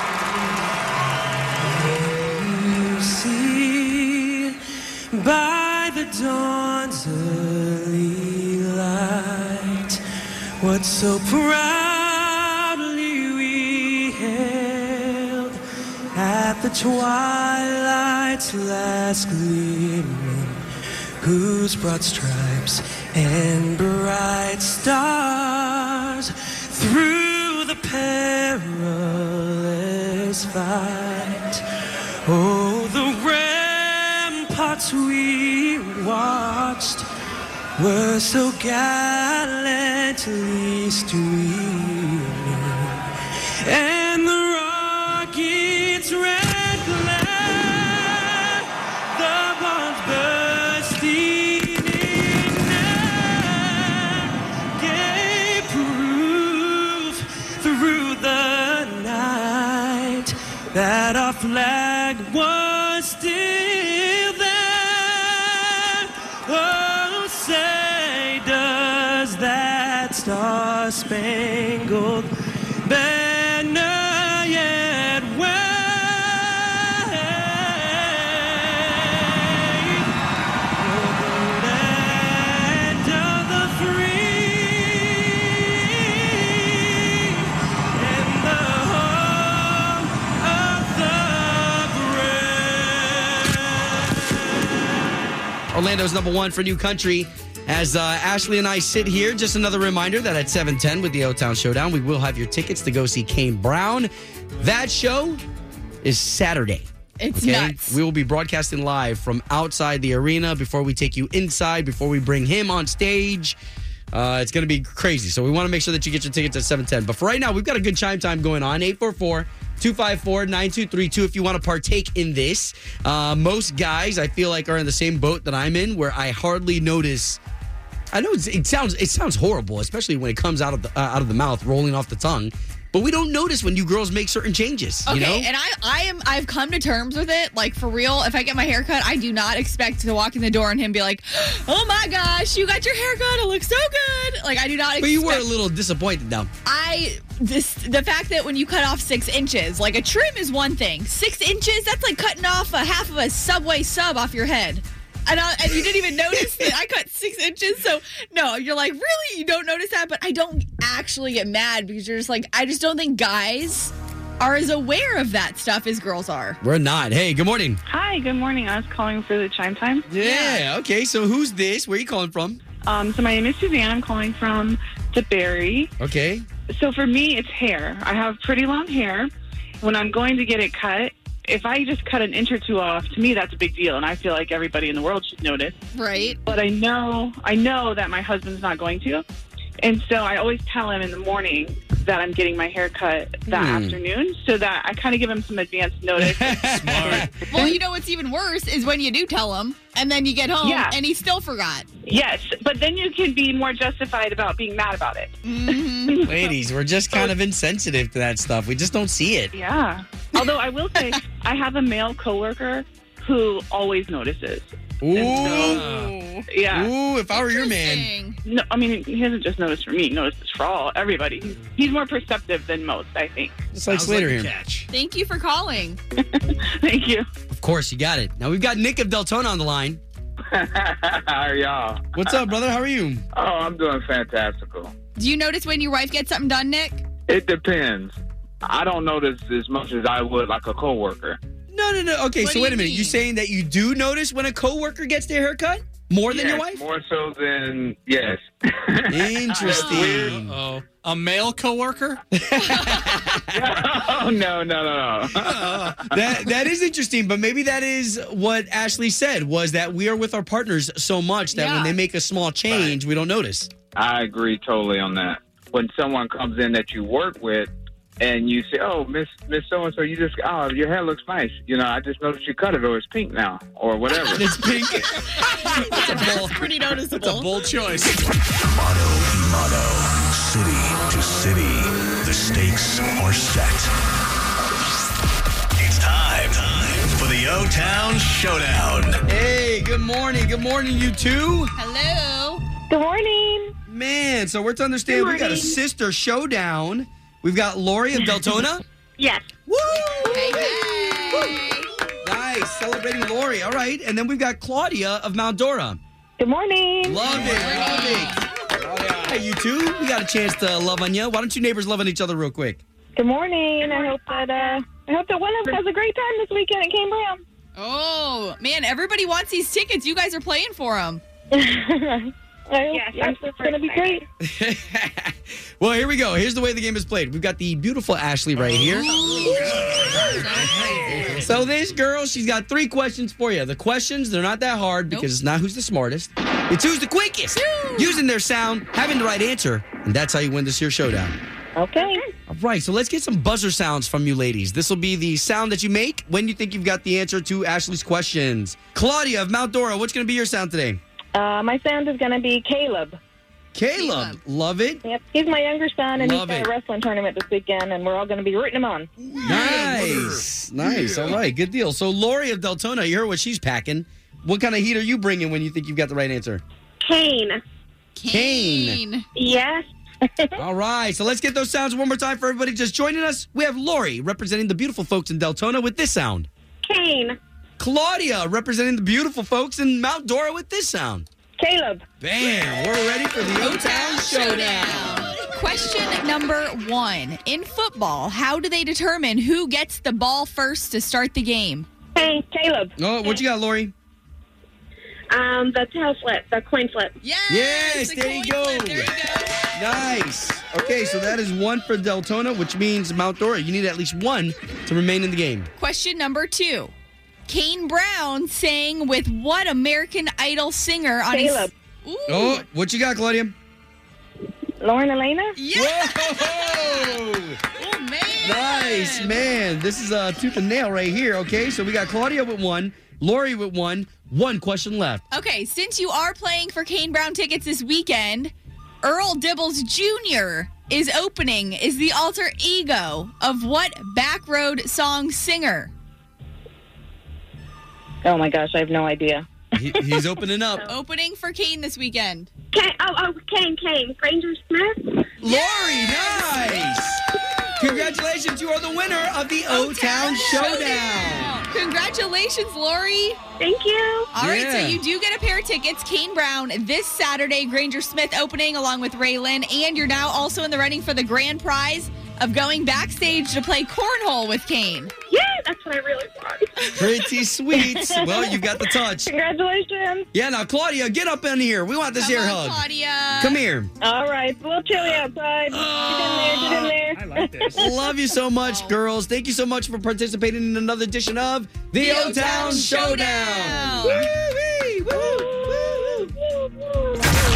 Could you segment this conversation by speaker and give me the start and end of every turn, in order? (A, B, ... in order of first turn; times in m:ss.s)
0:01.5-0:04.6 A
0:05.1-0:10.0 A
0:10.6-0:15.6 A
0:16.1-0:20.6 A
0:21.2-0:31.6 A
0:32.2-0:37.1 A
0:37.8-0:43.0 A
0:43.6-1:12.3 A
1:12.8-1:20.1 A
1:20.8-1:35.2 A
1:35.7-1:45.4 B
1:46.0-1:46.8 B
1:47.2-1:48.0 C
1:47.4-1:53.6 B
1:54.1-2:07.4 B
2:08.1-2:15.5 B
2:15.0-2:25.5 C
2:25.0-2:26.5 B
2:26.6-2:46.6 C
2:46.6-2:47.8 B
2:47.8-2:50.0 D
2:50.1-2:52.6 B
2:50.2-2:50.6 C
2:52.8-2:55.9 D
2:56.0-2:56.4 B
2:56.7-2:59.3 D
2:59.8-3:05.8 D
3:05.9-3:06.4 C
3:06.4-3:09.2 D
3:09.8-3:17.2 D
3:13.5-3:14.0 B
3:16.2-3:17.8 B
3:16.8-3:17.3 E
3:17.3-3:21.9 C
3:20.6-3:21.0 D
3:22.0-3:26.4 D
3:25.4-3:26.3 C
3:26.2-3:29.5 B
3:29.5-3:35.8 D
3:35.0-3:35.8 B
3:35.3-3:36.4 C
3:35.4-3:36.1 E
3:36.5-3:36.9 D
3:36.7-3:38.1 B
3:37.3-3:38.4 C
3:38.4-3:43.6 D
3:43.7-3:44.5 B
3:43.8-3:44.9 E
3:44.9-3:46.0 C
3:46.3-3:47.2 D
3:47.5-3:50.0 B
3:50.5-3:52.4 F
3:52.1-3:53.2 B
3:53.3-3:54.9 F
3:55.2-3:57.0 C
3:57.3-4:01.4 F
4:01.7-4:06.8 B
4:02.4-4:03.2 C
4:06.3-4:10.4 F
4:09.1-4:10.6 B
4:09.8-4:12.2 E
4:12.3-4:13.8 B
4:12.6-4:13.1 C
4:13.5-4:16.1 F
4:15.4-4:23.7 B
4:21.5-4:22.0 C
4:22.7-4:22.9 F
4:23.9-4:34.5 F
4:34.3-4:38.2 B
4:35.3-4:37.5 C
4:38.6-4:43.9 G
4:45.8-4:49.2 G
4:49.2-4:51.7 B
4:51.8-4:52.6 C
4:52.9-4:53.7 H
4:53.9-4:58.8 B
4:59.7-5:01.5 B
5:00.2-5:01.9 C
5:02.2-5:06.0 B
5:06.4-5:07.4 H
5:07.0-5:12.8 B
5:07.3-5:08.5 C
5:07.6-5:08.0 E
5:08.8-5:09.4 E
5:13.2-5:17.4 H
5:17.8-5:21.2 C
5:21.5-5:24.2 H
5:23.1-5:23.9 I
5:24.4-5:30.4 B
5:28.8-5:31.4 C
5:30.6-5:31.3 E
5:31.0-5:41.4 B
5:37.5-5:38.2 C
5:41.8-5:42.2 H
5:42.5-5:51.0 B
5:51.3-5:53.2 H
5:53.7-5:55.0 B
5:53.9-5:54.4 C
5:55.0-5:59.1 H
5:56.2-5:56.7 B
5:59.4-6:06.6 B
5:59.5-6:00.1 E
6:08.2-6:09.2 C
6:08.3-6:09.0 B
6:10.6-6:16.5 B
6:17.8-6:21.2 B
6:21.6-6:22.0 H
6:22.2-6:25.3 B
6:23.6-6:31.9 C
6:33.0-6:33.9 B
6:37.2-6:39.7 C
6:37.5-6:39.1 B
6:39.7-6:45.7 B
6:45.8-6:46.9 C
6:47.5-6:52.6 C
6:51.3-6:51.7 H
6:52.3-6:53.5 B
6:54.8-6:55.6 H
6:55.6-6:57.2 C
6:55.7-6:57.6 B
6:57.7-6:59.4 C
6:58.4-7:05.2 B
7:05.3-7:15.9 C
7:18.2-7:19.4 H
7:19.7-7:20.9 B
7:20.8-7:22.5 C
7:22.8-7:23.5 I
7:24.1-7:24.7 I
7:25.4-7:31.5 B
7:25.4-7:26.9 C
7:29.7-7:33.4 C
7:34.3-7:45.1 C
7:34.4-7:35.0 B
7:46.9-7:49.3 B
7:47.8-7:48.6 H
7:49.2-7:50.3 H
7:50.3-7:52.8 B
7:52.2-7:53.6 C
7:53.4-7:53.9 B
7:54.0-7:58.0 H
7:55.7-7:56.9 B
7:56.8-7:57.8 E
7:57.7-8:06.2 B
7:58.6-7:58.9 C
8:02.0-8:04.3 C